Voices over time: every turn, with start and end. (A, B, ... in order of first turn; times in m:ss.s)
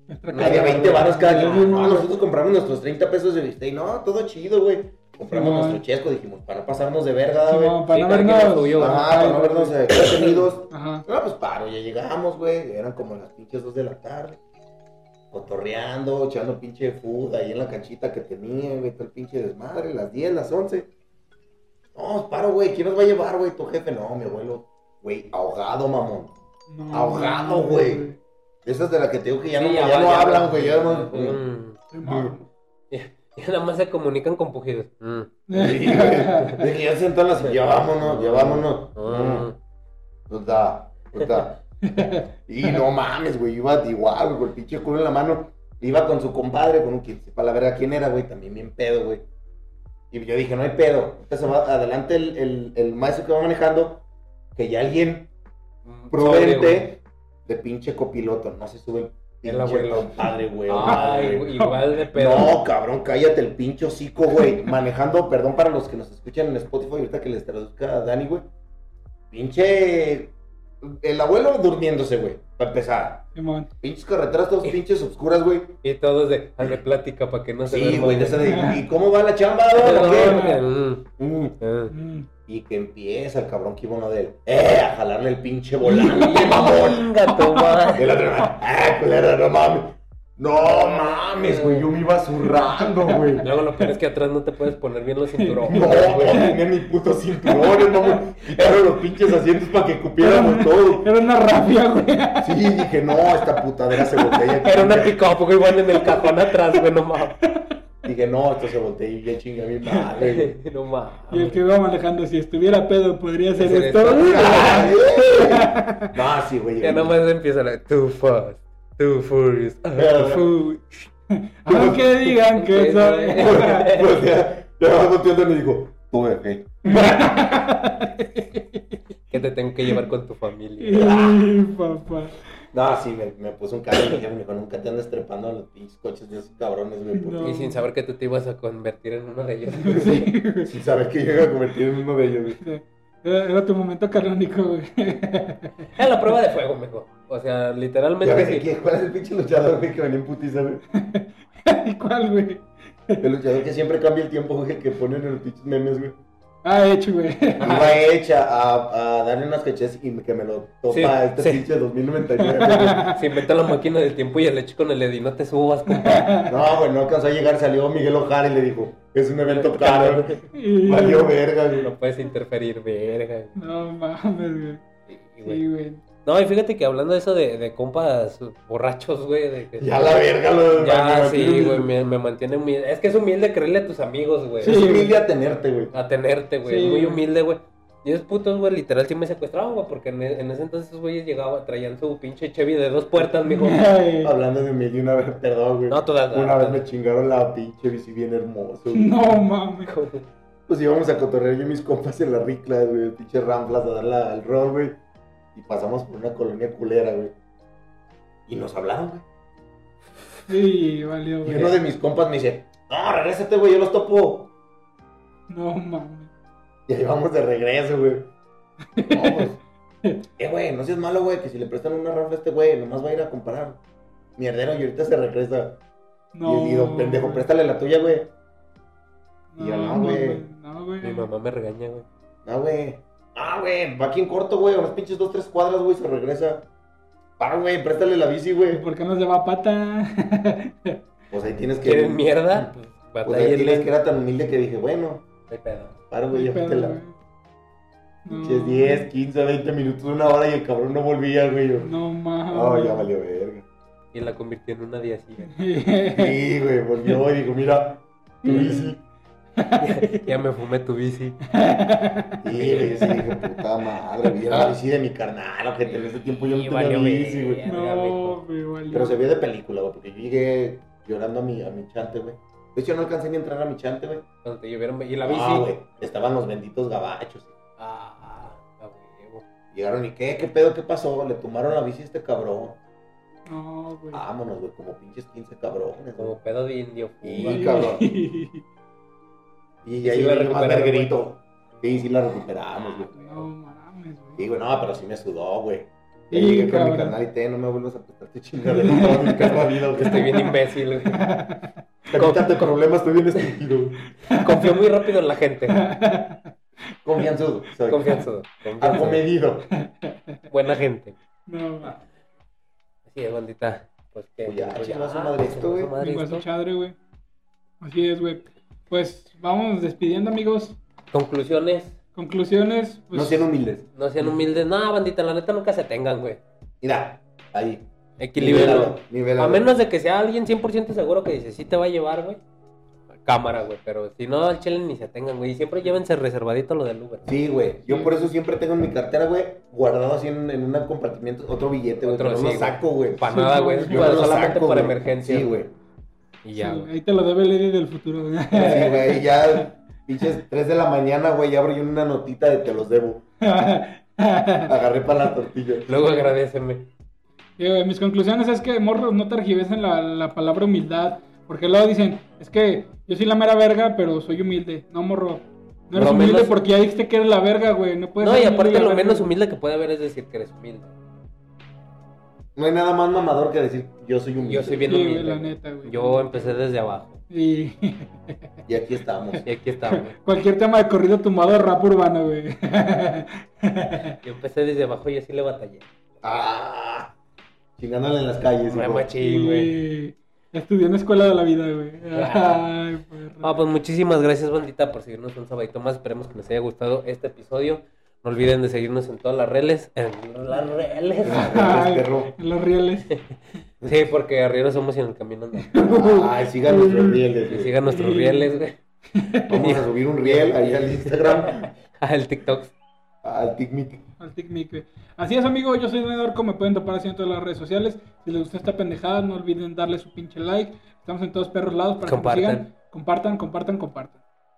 0:00.1-0:02.1 A
0:00.3-0:01.9 B
0:00.4-0:07.8 C
0:05.3-0:05.8 A
0:07.5-0:11.0 A
0:07.9-0:09.1 B
0:08.8-0:14.4 C
0:15.3-0:20.9 C
0:22.0-0:26.3 C
0:26.7-0:28.2 A
0:26.9-0:28.1 C
0:28.6-0:31.4 C
0:29.6-0:31.8 B
0:31.9-0:32.5 A
0:32.0-0:32.4 C
0:32.9-0:36.6 B
0:35.5-0:36.6 A
0:35.6-0:39.5 C
0:37.4-0:39.6 B
0:40.3-0:41.6 C
0:41.8-0:42.8 A
0:42.5-0:49.3 C
0:50.1-0:54.0 C
0:54.6-0:55.3 C
0:55.9-0:56.9 B
0:56.1-1:01.5 C
0:59.4-1:00.1 B
1:00.7-1:02.6 B
1:01.6-1:01.8 A
1:02.1-1:08.5 C
1:09.3-1:13.3 C
1:13.4-1:13.7 A
1:13.8-1:15.8 C
1:15.8-1:18.5 B
1:17.7-1:20.5 C
1:18.4-1:18.8 A
1:19.7-1:21.1 B
1:20.0-1:20.6 A
1:21.2-1:21.6 C
1:21.6-1:21.9 B
1:21.9-1:22.3 A
1:22.5-1:27.1 C
1:25.9-1:28.1 B
1:25.9-1:26.7 A
1:27.4-1:27.8 A
1:28.0-1:33.4 C
1:30.6-1:31.9 B
1:33.1-1:33.9 A
1:33.4-1:36.5 B
1:35.4-1:36.6 A
1:35.7-1:41.1 C
1:37.5-1:38.2 A
1:40.2-1:42.6 A
1:42.4-1:45.2 C
1:44.6-1:47.4 B
1:45.9-1:46.2 A
1:48.0-1:50.6 C
1:50.2-1:51.6 B
1:51.3-1:56.1 A
1:53.6-1:54.9 B
1:54.2-1:57.2 C
1:56.8-2:01.0 B
2:00.0-2:00.5 C
2:01.3-2:03.9 A
2:01.7-2:02.0 C
2:02.2-2:04.1 B
2:03.4-2:07.6 C
2:06.9-2:09.0 A
2:09.3-2:11.1 B
2:10.8-2:12.4 A
2:10.9-2:11.6 C
2:12.7-2:17.6 C
2:17.1-2:17.8 A
2:17.4-2:20.2 B
2:19.8-2:20.7 A
2:19.9-2:22.6 C
2:22.6-2:25.9 A
2:25.9-2:28.7 B
2:28.2-2:30.8 C
2:30.9-2:33.2 A
2:33.2-2:36.2 C
2:36.6-2:37.9 A
2:37.6-2:37.9 B
2:37.6-2:43.1 C
2:40.9-2:41.7 B
2:42.4-2:43.2 A
2:43.0-2:46.4 B
2:45.9-2:46.5 A
2:46.5-2:51.9 C
2:49.4-2:50.4 B
2:50.5-2:51.4 A
2:51.8-2:53.6 B
2:53.6-2:54.8 A
2:55.1-2:55.6 B
2:55.4-2:56.0 A
2:56.2-3:00.1 B
2:59.8-3:01.9 C
3:00.7-3:04.8 B
3:04.6-3:05.9 C
3:04.6-3:05.1 A
3:05.9-3:13.9 B
3:06.6-3:07.2 A
3:13.5-3:14.3 A
3:14.2-3:19.2 C
3:15.9-3:16.8 B
3:18.9-3:19.9 A
3:19.9-3:20.3 B
3:20.7-3:25.0 C
3:25.6-3:27.3 C
3:28.5-3:29.2 C
3:30.5-3:31.8 A
3:31.4-3:34.5 C
3:35.5-3:36.3 A
3:36.9-3:38.3 C
3:39.0-3:39.5 A
3:39.0-3:39.6 C
3:40.4-3:43.8 C
3:44.4-3:45.8 C
3:46.3-3:47.5 A
3:46.4-3:48.3 C
3:49.5-3:51.3 A
3:49.6-3:50.4 C
3:51.0-3:52.1 B
3:52.4-3:56.7 C
3:57.4-3:58.8 C
3:58.7-4:01.0 A
4:01.3-4:05.2 C
4:01.8-4:03.9 B
4:05.5-4:06.0 B
4:06.1-4:07.0 C
4:06.3-4:07.2 A
4:08.3-4:09.1 A
4:08.3-4:11.9 C
4:11.8-4:13.1 A
4:12.5-4:13.7 C
4:14.1-4:15.6 B
4:15.5-4:16.4 A
4:16.2-4:19.0 C
4:18.4-4:18.9 A
4:19.6-4:20.3 A
4:19.8-4:21.4 B
4:21.5-4:22.4 A
4:22.4-4:27.6 C
4:22.5-4:23.0 B
4:25.9-4:28.4 B
4:27.7-4:29.2 A
4:28.9-4:34.2 C
4:34.4-4:35.7 B
4:35.2-4:37.6 C
4:37.8-4:39.4 B
4:39.7-4:42.8 C
4:43.5-4:44.2 A
4:44.1-4:46.4 C
4:46.2-4:47.9 B
4:47.2-4:48.1 C
4:47.4-4:48.6 A
4:49.8-4:53.5 C
4:50.0-4:51.2 B
4:53.1-4:54.4 A
4:54.4-5:00.3 C
4:56.3-4:57.2 A
4:58.6-5:00.5 A
4:59.2-5:01.3 B
5:01.1-5:01.7 A
5:02.1-5:04.0 C
5:02.2-5:02.7 B
5:04.2-5:04.8 A
5:04.3-5:05.8 B
5:05.7-5:06.5 A
5:07.0-5:08.3 C
5:07.9-5:09.2 B
5:08.8-5:09.7 C
5:09.8-5:10.4 A
5:10.5-5:11.2 B
5:11.5-5:12.0 A
5:13.1-5:16.4 B
5:14.4-5:15.9 C
5:16.0-5:17.0 A
5:17.8-5:20.8 A
5:21.1-5:22.0 B
5:22.2-5:23.5 A
5:23.1-5:24.3 C
5:24.0-5:26.4 B
5:26.8-5:27.9 C
5:28.2-5:32.4 B
5:28.4-5:29.7 C
5:33.2-5:37.4 B
5:37.3-5:43.3 C
5:37.9-5:38.3 A
5:42.0-5:45.6 B
5:43.2-5:44.2 A
5:43.8-5:45.7 C
5:46.4-5:46.9 B
5:46.6-5:49.7 A
5:48.5-5:53.2 C
5:53.4-5:54.7 A
5:54.7-5:55.9 C
5:55.9-5:56.9 B
5:57.6-6:09.3 A
6:05.9-6:06.6 B
6:08.2-6:10.9 B
6:12.6-6:14.8 C
6:14.4-6:17.2 B
6:14.9-6:16.6 A
6:17.3-6:18.3 A
6:18.7-6:19.4 C
6:19.4-6:20.2 B
6:19.9-6:24.2 A
6:24.2-6:25.9 B
6:26.2-6:27.1 C
6:27.8-6:29.1 C
6:28.6-6:29.8 B
6:29.2-6:33.5 A
6:32.1-6:32.6 B
6:33.4-6:41.8 B
6:41.2-6:42.4 C
6:41.2-6:43.2 A
6:43.8-6:45.9 B
6:45.7-6:47.2 A
6:45.8-6:47.8 C
6:47.5-6:48.8 B
6:47.9-6:48.5 A
6:49.1-6:49.5 A
6:49.5-6:51.7 C
6:49.5-6:52.7 B
6:53.2-6:54.0 C
6:54.2-7:04.2 A
7:02.0-7:02.7 B